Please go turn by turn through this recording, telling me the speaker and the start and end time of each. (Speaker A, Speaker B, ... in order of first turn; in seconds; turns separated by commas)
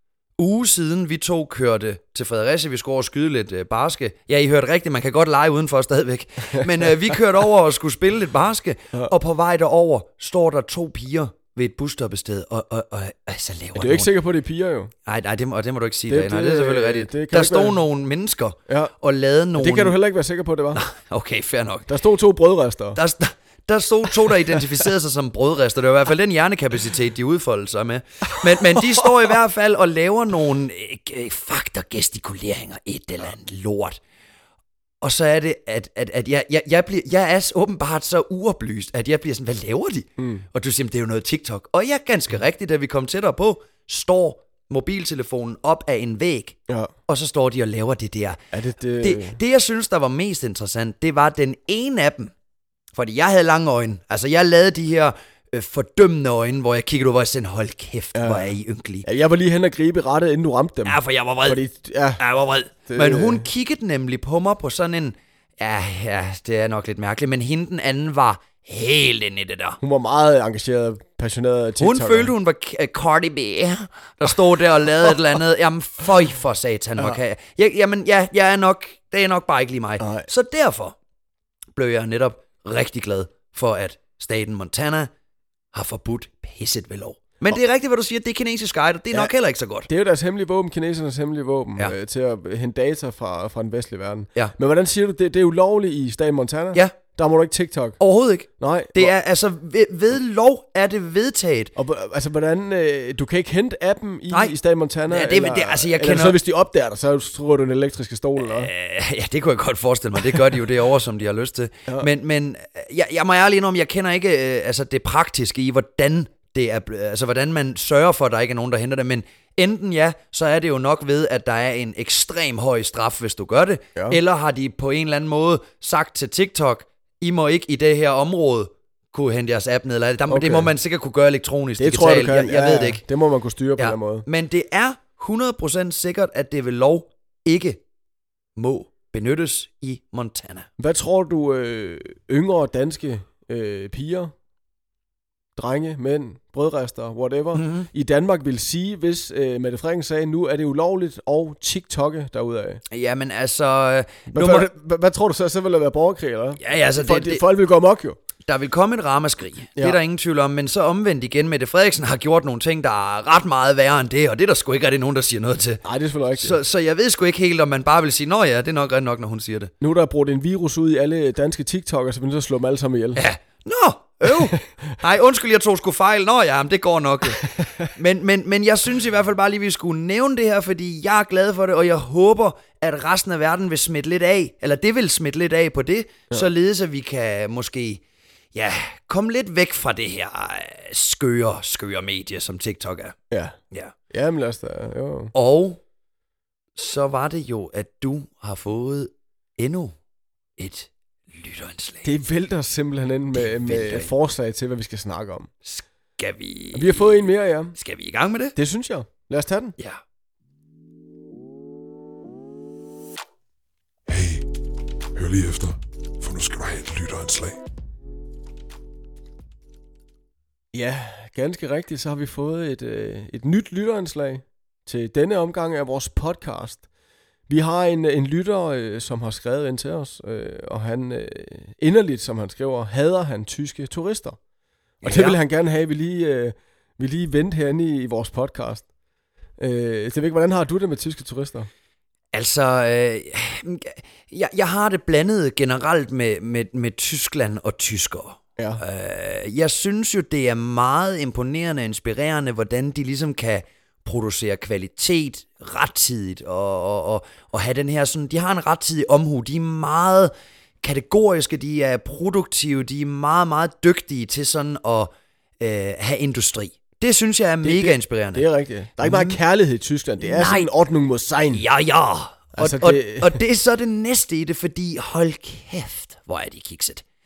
Speaker A: 0.4-14.1, Speaker B: 13.8-14.9, Speaker A: 15.1-20.0, Speaker B: 16.1-17.8, Speaker B: 18.7-18.9, Speaker B: 19.6-20.8, Speaker A: 20.8-21.9, Speaker B: 21.9-23.0, Speaker A: 22.9-34.0, Speaker A: 35.0-46.6, Speaker B: 40.2-40.5, Speaker A: 47.1-48.4, Speaker B: 48.5-49.4, Speaker A: 49.0-52.3, Speaker A: 52.9-59.0, Speaker B: 58.1-58.5, Speaker B: 59.0-62.2, Speaker A: 60.8-61.6, Speaker A: 62.2-69.8, Speaker B: 62.9-63.5, Speaker B: 69.8-72.3, Speaker A: 71.8-81.0, Speaker B: 80.0-80.3, Speaker A: 81.8-85.1, Speaker A: 85.7-89.9, Speaker B: 89.9-98.0, Speaker A: 98.0-101.7, Speaker B: 98.6-99.1, Speaker B: 101.8-108.7, Speaker A: 105.1-106.4, Speaker A: 108.4-133.0, Speaker B: 130.3-130.7, Speaker B: 131.8-134.3, Speaker A: 133.8-137.8, Speaker A: 138.6-140.7, Speaker B: 140.8-144.3, Speaker B: 145.6-152.8, Speaker A: 147.6-147.9, Speaker A: 152.9-154.7, Speaker B: 154.3-158.2, Speaker A: 156.6-157.4, Speaker A: 158.5-165.8, Speaker B: 165.8-166.6, Speaker A: 166.4-169.7, Speaker B: 169.8-173.2, Speaker A: 173.2-188.0, Speaker A: 188.5-193.2, Speaker B: 193.3-193.6, Speaker B: 194.1-195.3, Speaker A: 195.3-195.8, Speaker A: 196.8-200.0, Speaker A: 200.6-202.1, Speaker B: 202.0-205.5, Speaker A: 203.3-204.1, Speaker A: 205.7-207.2, Speaker B: 206.8-207.8, Speaker A: 207.8-208.6, Speaker B: 208.6-209.8, Speaker C: 214.1-214.5, Speaker C: 215.2-217.6, Speaker B: 220.7-226.8, Speaker B: 227.5-234.4, Speaker B: 235.0-238.8, Speaker A: 235.0-235.4, Speaker B: 239.6-241.7, Speaker A: 242.3-268.5, Speaker B: 267.6-271.6, Speaker A: 269.0-269.4, Speaker A: 270.2-270.7, Speaker A: 271.5-277.0, Speaker B: 272.5-273.4